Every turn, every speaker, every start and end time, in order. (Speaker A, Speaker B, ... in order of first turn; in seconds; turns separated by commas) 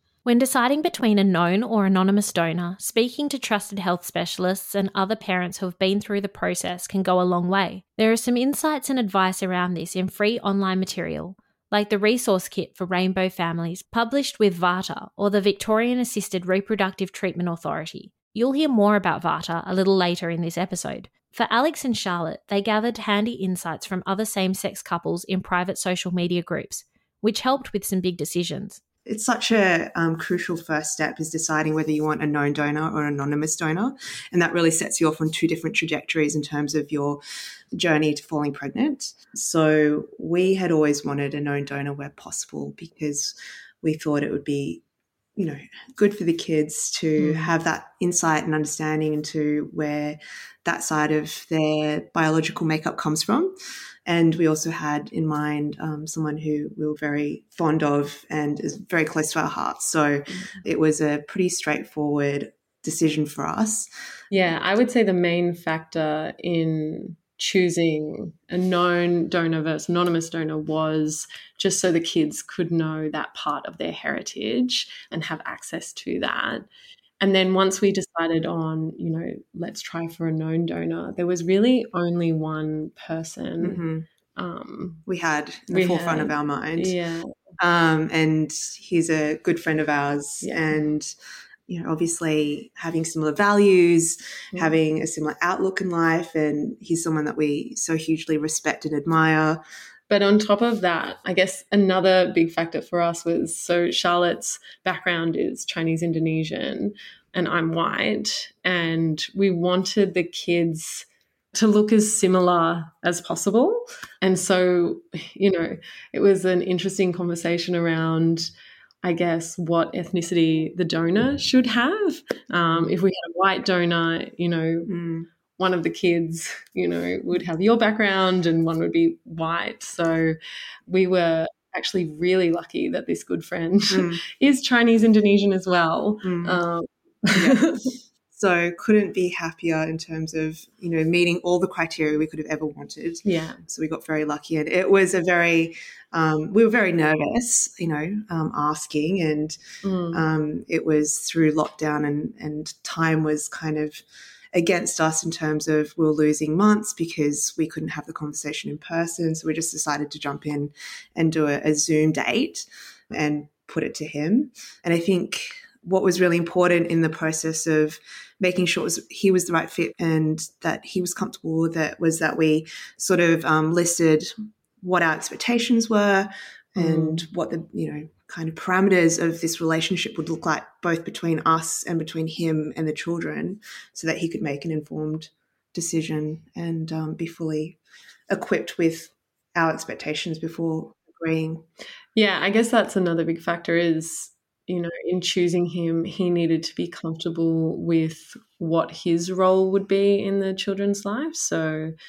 Speaker A: 0.2-28.8, Speaker B: 29.1-37.2, Speaker B: 37.7-44.8, Speaker B: 45.4-53.5, Speaker C: 47.2-47.5, Speaker B: 54.0-63.9, Speaker C: 64.3-76.7, Speaker C: 77.2-83.8, Speaker B: 83.6-84.0, Speaker C: 84.3-85.0, Speaker B: 85.0-86.9, Speaker C: 85.7-87.3, Speaker B: 87.6-91.1, Speaker C: 90.4-90.8, Speaker B: 91.7-99.6, Speaker C: 100.1-118.5, Speaker C: 119.0-124.9, Speaker B: 124.9-125.3, Speaker C: 125.6-130.3, Speaker C: 130.9-137.9, Speaker B: 133.9-134.2, Speaker B: 136.2-136.6, Speaker B: 137.3-137.6, Speaker B: 138.3-149.6, Speaker C: 143.2-143.6, Speaker C: 149.8-150.2, Speaker B: 150.1-154.0, Speaker B: 154.5-187.8, Speaker C: 176.8-177.2, Speaker B: 188.3-191.6, Speaker C: 192.2-201.9